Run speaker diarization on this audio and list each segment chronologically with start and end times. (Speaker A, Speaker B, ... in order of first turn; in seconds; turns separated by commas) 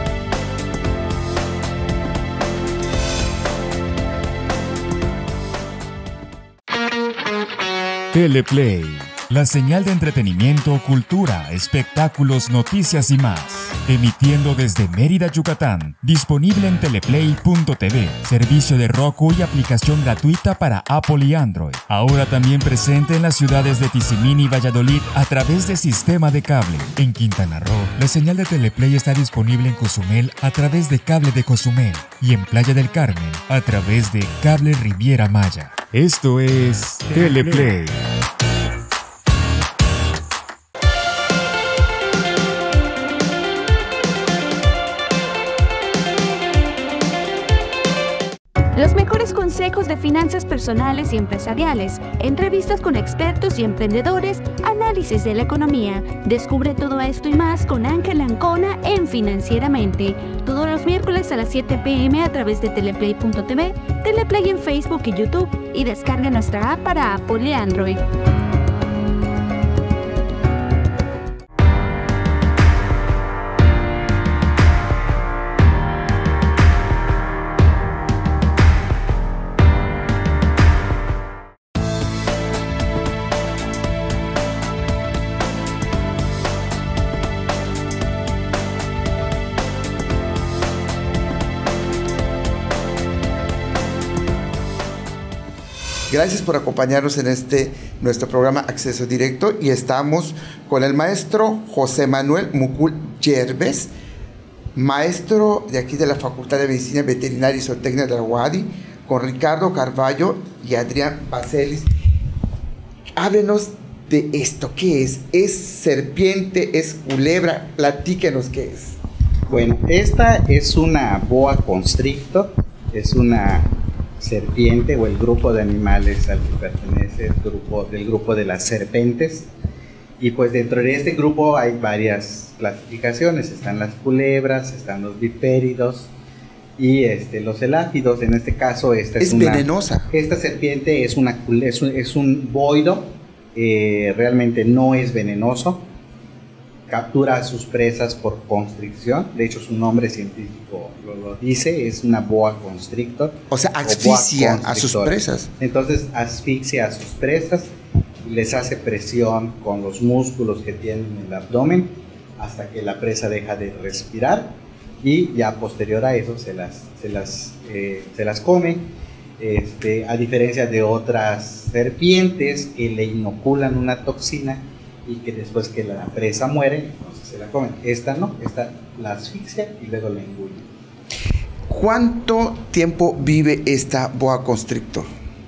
Speaker A: 8.1-38.0, Speaker B: 48.7-68.0, Speaker C: 96.1-103.9, Speaker C: 104.7-111.9, Speaker C: 113.2-119.0, Speaker D: 119.5-129.5, Speaker D: 130.2-136.1, Speaker D: 136.8-145.8, Speaker C: 139.2-140.1, Speaker D: 146.9-168.9, Speaker C: 153.5-155.5, Speaker D: 169.4-180.7, Speaker C: 181.7-185.1